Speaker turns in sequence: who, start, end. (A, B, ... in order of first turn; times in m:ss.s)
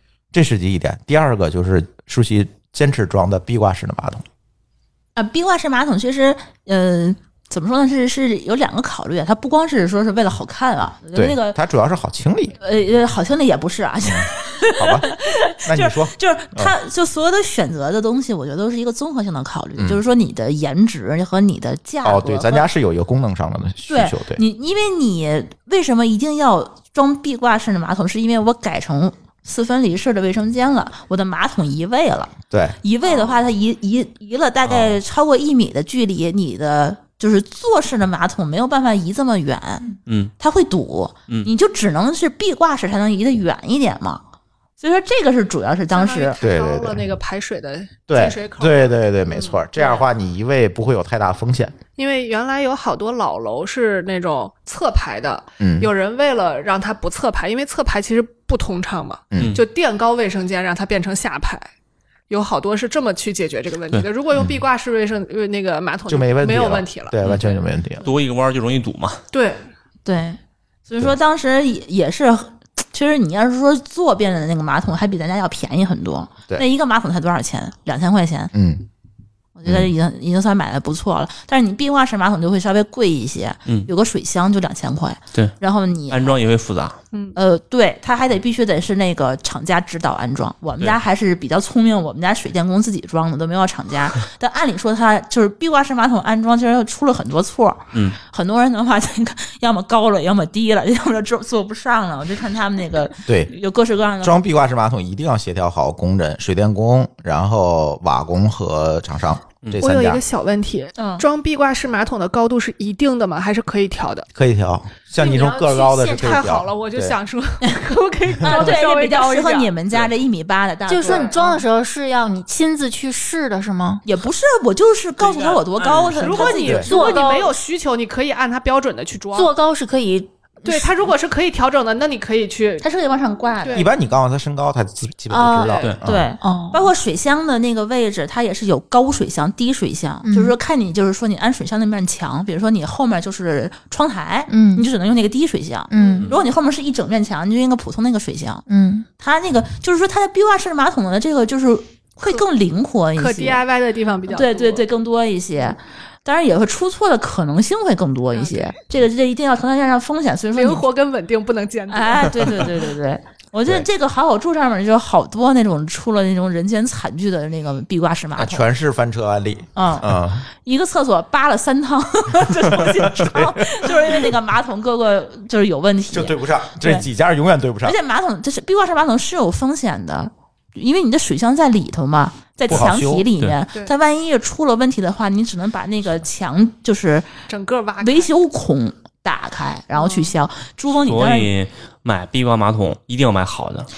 0:00.3-0:04.2 A
0:05.2-0:11.6 B
0:11.1-0:12.6 A
0:12.6-0:22.7 B
0:14.0-0:15.1 A
0:15.6-0:16.7 A
0:22.0-0:24.4 A
0:23.9-0:44.2 B
0:32.5-0:32.8 A
0:34.6-0:35.0 C
0:40.1-0:40.3 C
0:44.8-0:46.4 B
0:45.9-0:50.0 D
0:46.4-0:47.0 A
0:48.1-0:51.8 A
0:52.0-1:01.7 D
0:55.6-0:55.9 A
0:59.3-0:59.6 A
0:59.4-0:59.6 C
1:02.3-1:07.6 D
1:06.1-1:08.0 A
1:08.0-1:09.2 C
1:09.3-1:09.6 D
1:10.0-1:18.5 B
1:18.5-1:18.8 A
1:19.6-1:26.4 B
1:19.6-1:19.9 A
1:26.1-1:27.0 C
1:27.1-1:27.4 D
1:27.3-1:44.4 B
1:43.2-1:43.5 A
1:44.2-1:50.2 A
1:49.7-1:54.3 D
1:51.0-1:51.2 B
1:54.3-1:57.2 A
1:55.1-1:56.5 E
1:56.1-1:59.7 D
1:58.4-2:01.4 B
2:00.9-2:04.0 E
2:01.0-2:01.6 D
2:04.0-2:07.3 B
2:05.2-2:06.6 C
2:06.1-2:09.5 D
2:06.8-2:07.5 E
2:09.3-2:11.1 E
2:10.6-2:12.9 D
2:12.8-2:13.9 B
2:13.6-2:13.9 D
2:13.7-2:16.3 A
2:15.3-2:15.9 E
2:15.6-2:16.0 D
2:16.0-2:28.6 B
2:16.4-2:16.9 E
2:20.2-2:20.6 E
2:24.5-2:24.8 E
2:25.9-2:26.3 E
2:26.0-2:26.3 D
2:28.7-2:29.1 E
2:29.2-2:33.6 B
2:33.2-2:34.8 D
2:34.3-2:40.8 B
2:38.4-2:38.7 D
2:40.5-2:42.7 D
2:41.9-2:48.7 B
2:48.4-2:50.4 A
2:49.7-2:57.1 B
2:52.7-2:54.3 A
2:56.1-2:58.0 A
2:57.8-3:07.3 B
3:02.7-3:03.3 A
3:07.5-3:08.3 D
3:08.0-3:11.5 B
3:10.0-3:10.3 D
3:11.0-3:13.9 C